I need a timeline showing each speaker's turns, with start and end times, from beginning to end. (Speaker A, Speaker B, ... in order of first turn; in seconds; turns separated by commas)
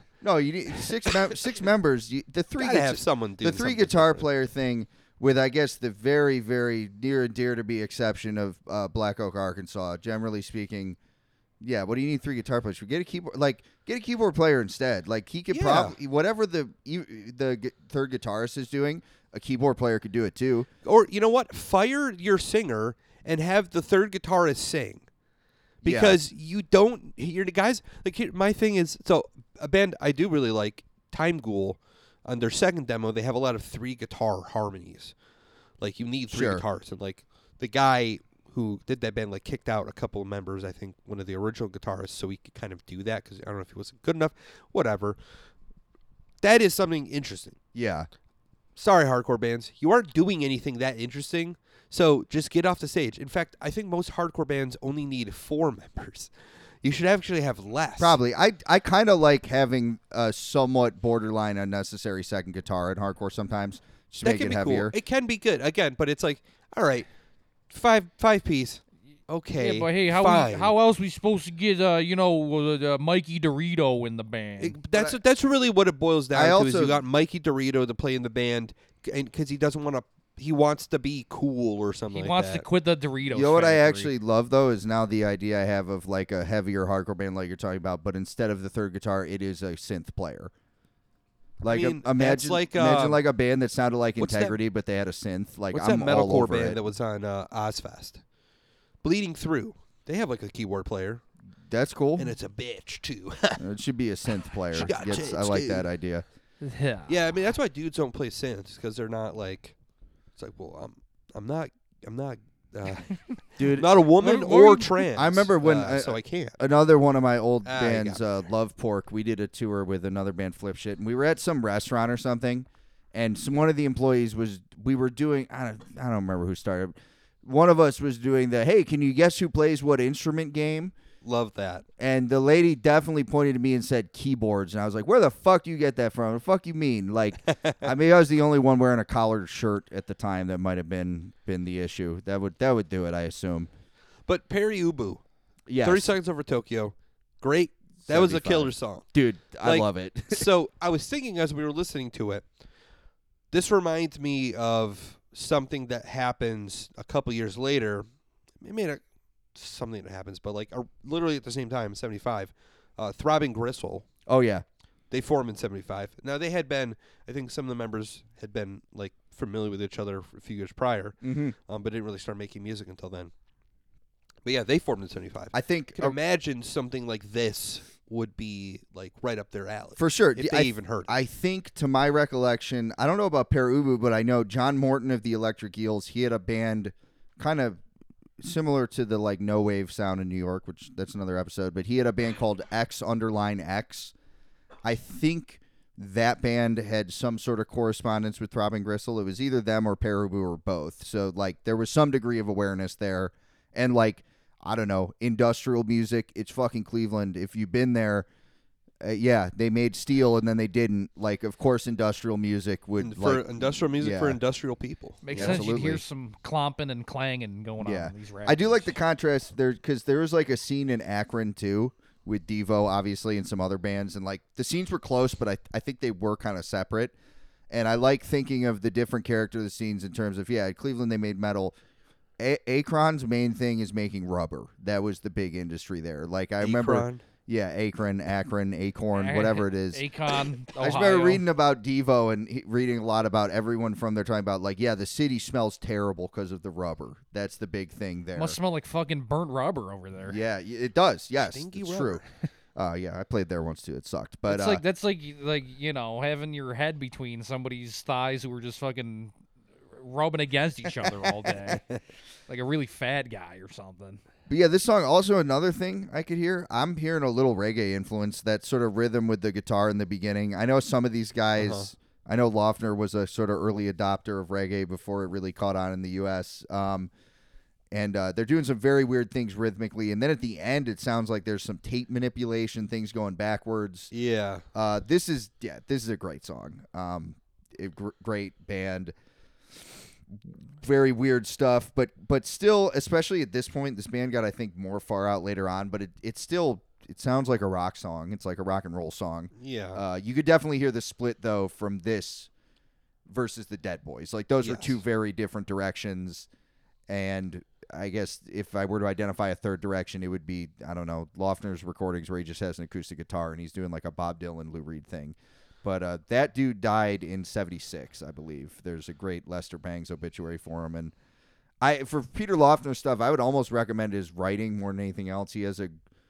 Speaker A: 0.2-11.0, Speaker B: 2.6-4.3, Speaker A: 11.6-20.7, Speaker B: 15.5-16.0, Speaker B: 20.9-25.1, Speaker B: 25.8-35.1, Speaker A: 25.8-26.2, Speaker B: 35.8-45.2, Speaker A: 36.3-36.6, Speaker B: 46.4-47.6, Speaker A: 47.7-48.1, Speaker B: 48.8-58.2, Speaker A: 58.0-65.0, Speaker B: 64.2-67.1, Speaker B: 67.7-70.7, Speaker C: 69.6-74.8, Speaker B: 74.6-82.7, Speaker A: 76.3-77.0, Speaker C: 82.1-84.1, Speaker A: 83.3-90.5, Speaker A: 91.6-96.8, Speaker B: 91.7-93.2, Speaker B: 94.2-94.6, Speaker B: 95.7-98.2, Speaker B: 99.0-101.2, Speaker A: 101.7-102.4, Speaker B: 102.2-103.6, Speaker A: 103.6-106.2, Speaker B: 104.7-105.9, Speaker C: 106.6-107.1, Speaker B: 107.1-109.8, Speaker B: 110.4-116.6, Speaker A: 113.6-113.9, Speaker C: 114.2-114.9, Speaker A: 115.0-130.9, Speaker B: 117.7-118.5, Speaker B: 131.2-131.8, Speaker A: 132.0-143.7, Speaker B: 137.5-137.8, Speaker B: 144.3-145.2, Speaker A: 145.7-146.2, Speaker B: 145.8-149.1, Speaker A: 148.1-150.5, Speaker B: 149.6-152.4, Speaker B: 153.5-158.1, Speaker B: 158.6-159.0, Speaker B: 159.6-164.1, Speaker A: 164.3-164.7, Speaker B: 165.1-173.3, Speaker A: 171.2-171.6, Speaker B: 174.4-181.1, Speaker A: 175.5-176.2, Speaker A: 180.0-187.8, Speaker A: 188.4-194.1, Speaker A: 194.8-208.3, Speaker A: 209.0-214.4, Speaker B: 213.0-215.6, Speaker C: 215.2-218.9, Speaker A: 215.3-216.0, Speaker A: 217.8-227.1, Speaker A: 227.7-231.8, Speaker A: 232.4-240.1, Speaker B: 236.6-237.2, Speaker C: 239.2-241.4, Speaker A: 240.6-248.6, Speaker C: 248.3-250.4, Speaker A: 250.2-252.2, Speaker B: 251.5-252.3, Speaker A: 252.8-254.8, Speaker C: 254.5-259.3, Speaker C: 259.9-261.8, Speaker A: 261.0-261.6, Speaker C: 262.5-264.2, Speaker A: 264.5-277.1, Speaker B: 271.6-271.9, Speaker A: 277.9-284.1, Speaker B: 284.1-284.6, Speaker A: 284.7-289.1, Speaker A: 289.8-302.5, Speaker B: 299.6-300.0, Speaker A: 303.3-306.5, Speaker B: 304.6-305.0, Speaker A: 307.1-321.1, Speaker A: 321.8-325.9